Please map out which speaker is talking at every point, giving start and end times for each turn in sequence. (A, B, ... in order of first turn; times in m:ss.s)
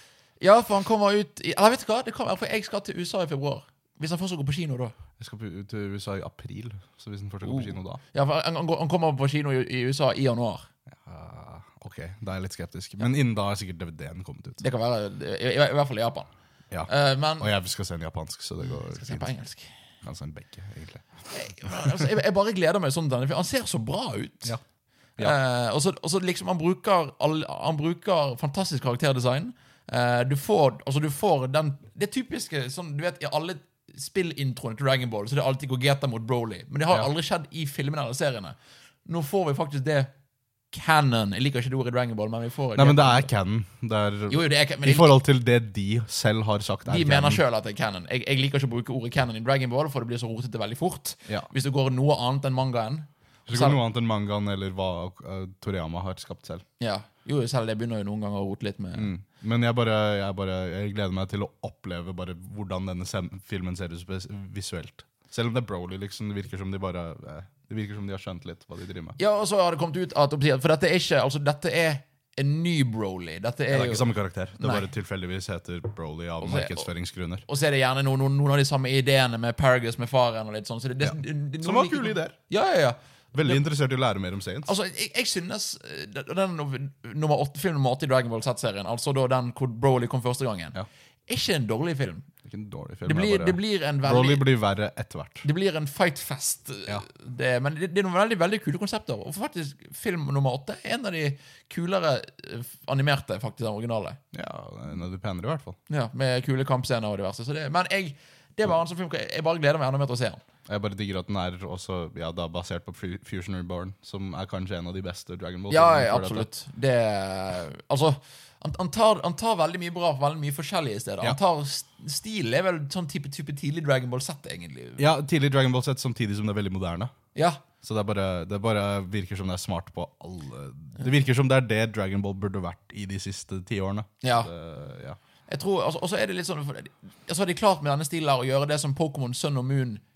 0:00.4-0:04.9 A
0:05.2-0:08.0 B
0:07.4-0:10.7 A
0:10.9-0:14.6 B
0:14.6-0:16.3 A
0:16.7-0:19.3 B
0:16.9-0:17.5 A
0:18.6-0:19.7 A
0:20.0-0:22.1 B
0:21.3-0:24.5 A
0:25.2-0:40.1 A
0:40.7-0:43.3 A
0:42.8-0:47.4 B
0:44.3-0:45.1 A
0:46.8-0:53.8 A
0:53.5-0:56.6 B
0:56.8-0:59.1 A
0:58.9-1:09.2 B
1:09.2-1:14.9 A
1:13.7-1:17.4 B
1:16.4-1:16.9 A
1:17.4-1:23.6 A
1:21.0-1:22.3 B
1:23.3-1:24.7 B
1:24.6-1:32.3 A
1:32.4-1:35.4 B
1:33.0-1:34.5 A
1:35.4-1:44.2 A
1:44.3-1:45.8 B
1:45.9-1:50.4 A
1:50.7-1:56.5 B
1:55.7-2:05.0 A
2:05.0-2:07.1 B
2:07.3-2:07.6 A
2:07.8-2:15.2 B
2:14.2-2:14.5 A
2:15.5-2:20.0 A